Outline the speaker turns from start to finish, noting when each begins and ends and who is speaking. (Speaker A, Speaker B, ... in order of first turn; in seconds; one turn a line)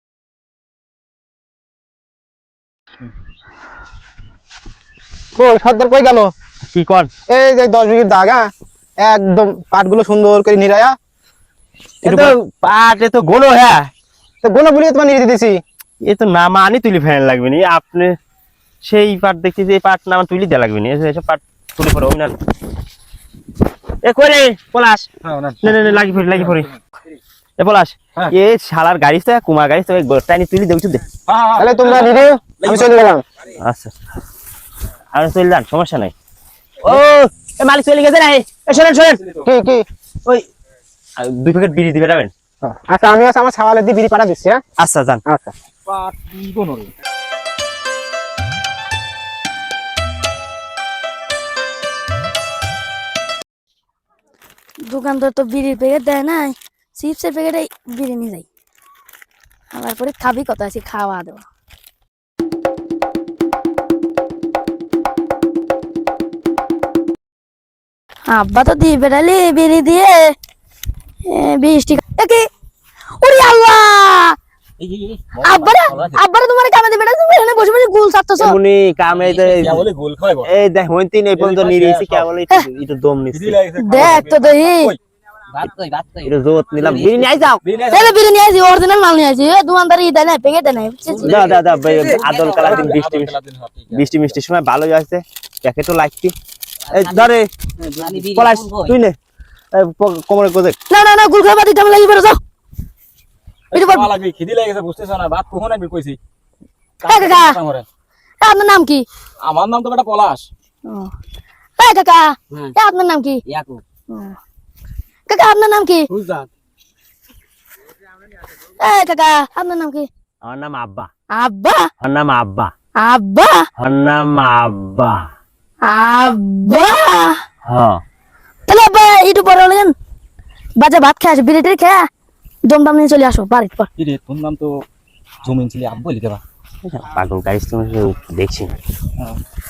Speaker A: 5.4-6.3
Speaker B: 6.7-7.1
Speaker A: 7.3-8.4
Speaker A: 9.0-11.0
Speaker A: 12.0-12.3
Speaker B: 12.0-13.9
Speaker A: 14.4-15.6
Speaker B: 16.1-18.1
Speaker B: 18.8-22.4
Speaker B: 24.0-25.1
Speaker C: 25.2-26.7
Speaker B: 25.6-26.7
Speaker B: 27.6-31.1
Speaker C: 31.3-33.0
Speaker A: 31.6-33.2
Speaker B: 33.6-33.9
Speaker B: 35.1-36.1
Speaker B: 36.8-39.2
Speaker C: 39.1-39.5
Speaker A: 39.4-39.9
Speaker B: 41.2-42.3
Speaker A: 42.6-44.6
Speaker B: 44.8-45.2
Speaker A: 45.3-45.5
Speaker C: 45.9-46.9
Speaker D: 54.9-58.5
Speaker D: 59.7-61.4
Speaker D: 68.3-70.3
Speaker D: 71.3-72.5
Speaker D: 73.2-74.3
Speaker C: 74.8-76.2
Speaker E: 75.4-76.1
Speaker D: 75.4-78.3
Speaker B: 78.4-79.9
Speaker C: 79.1-80.5
Speaker E: 79.1-79.6
Speaker B: 80.4-83.7
Speaker C: 81.4-82.3
Speaker C: 83.3-85.0
Speaker D: 83.8-84.9
Speaker E: 85.5-87.5
Speaker B: 86.3-87.6
Speaker C: 87.6-88.2
Speaker D: 87.9-91.3
Speaker C: 91.1-94.4
Speaker E: 91.2-92.9
Speaker B: 91.3-93.3
Speaker B: 93.9-96.3
Speaker E: 96.9-99.0
Speaker B: 96.9-97.5
Speaker C: 97.9-98.3
Speaker B: 98.3-99.2
Speaker B: 99.7-100.8
Speaker D: 100.9-102.4
Speaker C: 103.7-106.2
Speaker D: 103.7-104.1
Speaker C: 107.0-107.9
Speaker D: 107.1-107.6
Speaker D: 108.4-109.0
Speaker C: 109.4-110.5
Speaker D: 111.8-113.4
Speaker E: 113.5-113.8
Speaker D: 115.3-116.1
Speaker E: 116.1-116.5
Speaker D: 118.8-120.1
Speaker B: 120.4-121.1
Speaker D: 121.4-121.8
Speaker B: 122.0-122.7
Speaker D: 123.0-123.6
Speaker B: 123.8-125.3
Speaker D: 125.8-127.4
Speaker B: 127.7-128.0
Speaker D: 128.7-129.9
Speaker D: 130.8-132.1
Speaker D: 132.7-133.9
Speaker C: 134.0-134.8
Speaker C: 135.4-136.4
Speaker B: 136.8-138.7